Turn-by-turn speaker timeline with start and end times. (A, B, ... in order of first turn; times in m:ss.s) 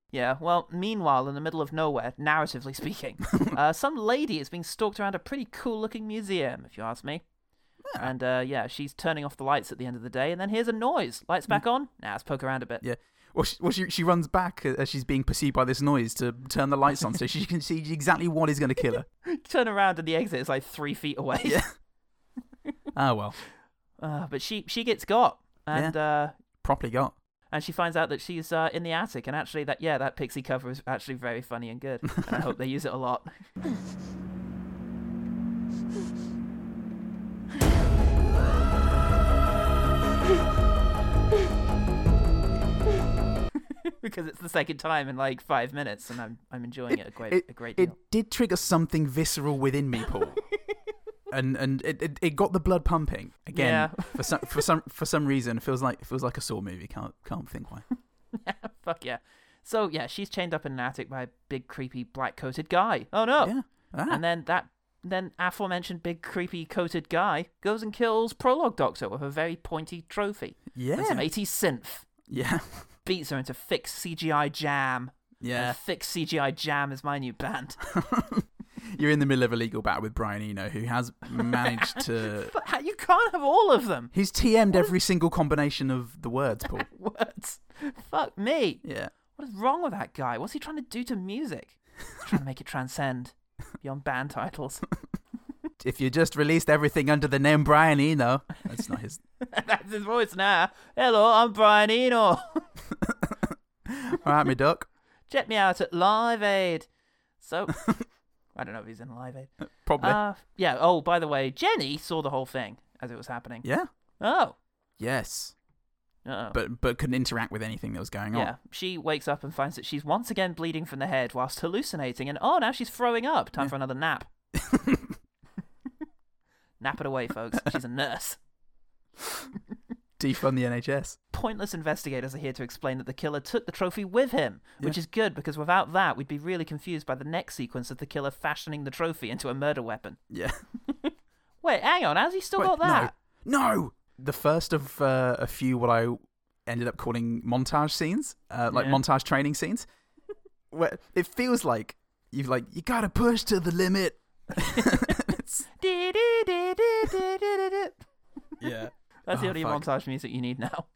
0:00.1-0:07.2 A
0:07.9-0:08.1 B
0:08.0-0:12.8 A
0:12.8-0:19.1 B
0:19.2-0:21.6 A
0:21.4-0:21.7 B
0:22.9-0:23.4 B
0:24.0-0:26.4 A
0:26.5-0:27.2 B
0:27.5-0:33.4 A
0:43.8-0:48.0 A
0:46.9-0:50.4 B
0:51.3-0:57.8 B
0:53.5-0:54.6 A
0:58.3-1:03.6 A
1:03.4-1:04.2 B
1:04.1-1:12.1 A
1:10.8-1:11.3 B
1:12.3-1:12.9 B
1:13.0-1:17.8 A
1:15.4-1:15.8 B
1:17.9-1:22.5 B
1:21.3-1:24.1 A
1:24.1-1:26.9 B
1:26.7-1:28.8 A
1:28.8-1:29.1 B
1:29.4-1:34.9 A
1:35.8-1:39.2 B
1:39.4-1:42.7 A
1:43.0-1:44.9 B
1:45.3-1:46.9 A
1:47.4-1:47.8 A
1:48.6-1:53.7 A
1:49.6-1:50.2 B
1:53.6-1:53.9 B
1:54.2-1:54.6 A
1:55.0-1:55.6 B
1:56.2-1:56.6 A
1:56.5-1:58.5 B
1:58.3-2:04.3 A
2:04.6-2:05.2 B
2:06.8-2:08.4 A
2:10.2-2:11.2 B
2:11.3-2:20.2 A
2:20.3-2:20.6 B
2:20.9-2:23.1 A
2:22.6-2:29.9 B
2:28.7-2:29.0 A
2:30.7-2:35.7 B
2:34.6-2:35.2 A
2:35.7-2:38.0 A
2:38.6-2:39.8 B
2:39.3-2:40.9 A